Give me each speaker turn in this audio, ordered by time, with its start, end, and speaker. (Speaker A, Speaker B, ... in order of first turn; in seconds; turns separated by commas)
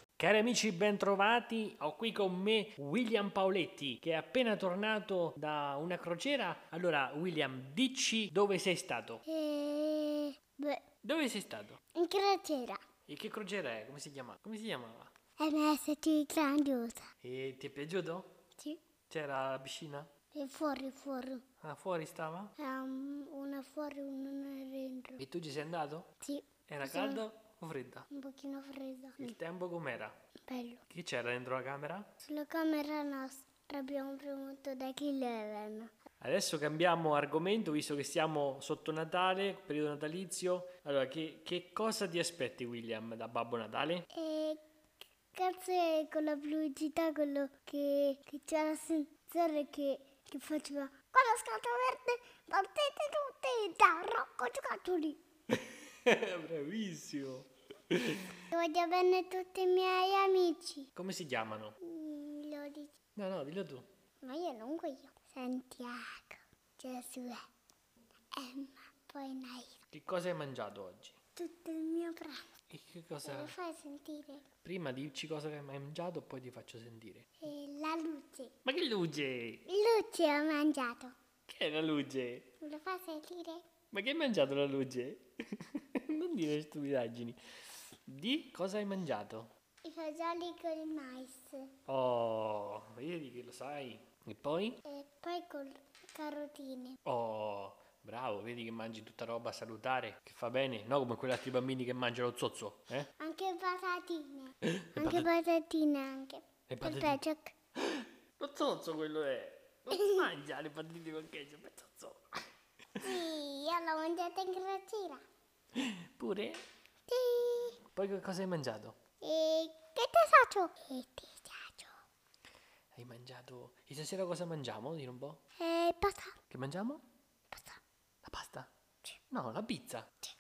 Speaker A: 0.2-9.2, Speaker B: 9.3-10.8, Speaker A: 11.0-11.8, Speaker B: 11.9-12.8, Speaker A: 13.1-15.1, Speaker B: 15.4-17.1, Speaker A: 17.2-18.3, Speaker A: 19.1-20.1, Speaker B: 20.3-21.4, Speaker A: 21.6-22.6, Speaker B: 22.6-25.2, Speaker A: 25.2-26.1, Speaker B: 26.2-27.2, Speaker A: 26.7-28.1, Speaker B: 28.1-29.4, Speaker A: 29.2-30.2, Speaker B: 30.5-30.8, Speaker A: 30.9-32.1, Speaker B: 32.2-35.9, Speaker A: 36.2-44.1, Speaker B: 44.1-44.6, Speaker B: 45.3-55.2, Speaker A: 55.5-58.4, Speaker B: 58.5-60.9, Speaker A: 61.0-61.8, Speaker B: 61.8-62.9, Speaker A: 63.1-63.9, Speaker B: 64.2-67.5, Speaker B: 68.3-69.8, Speaker A: 69.9-71.2, Speaker B: 71.4-72.5, Speaker A: 72.7-73.5, Speaker B: 73.2-74.5, Speaker A: 74.6-77.3, Speaker B: 77.4-78.5, Speaker A: 78.6-79.7, Speaker B: 79.7-81.2, Speaker A: 81.5-82.5, Speaker B: 82.6-83.7, Speaker A: 83.9-87.4, Speaker A: 88.1-89.5, Speaker B: 89.8-91.7, Speaker A: 91.9-94.8, Speaker B: 94.8-97.0, Speaker A: 97.0-103.1, Speaker B: 103.2-107.5, Speaker A: 104.6-105.3, Speaker A: 106.7-107.2, Speaker A: 107.8-112.2, Speaker B: 113.0-115.2, Speaker A: 115.8-116.6, Speaker B: 117.1-117.8, Speaker A: 117.9-119.0, Speaker B: 119.2-121.9, Speaker A: 123.0-125.4, Speaker B: 125.6-126.4, Speaker A: 126.5-127.0, Speaker B: 127.5-127.8, Speaker A: 128.2-128.7, Speaker A: 129.3-130.1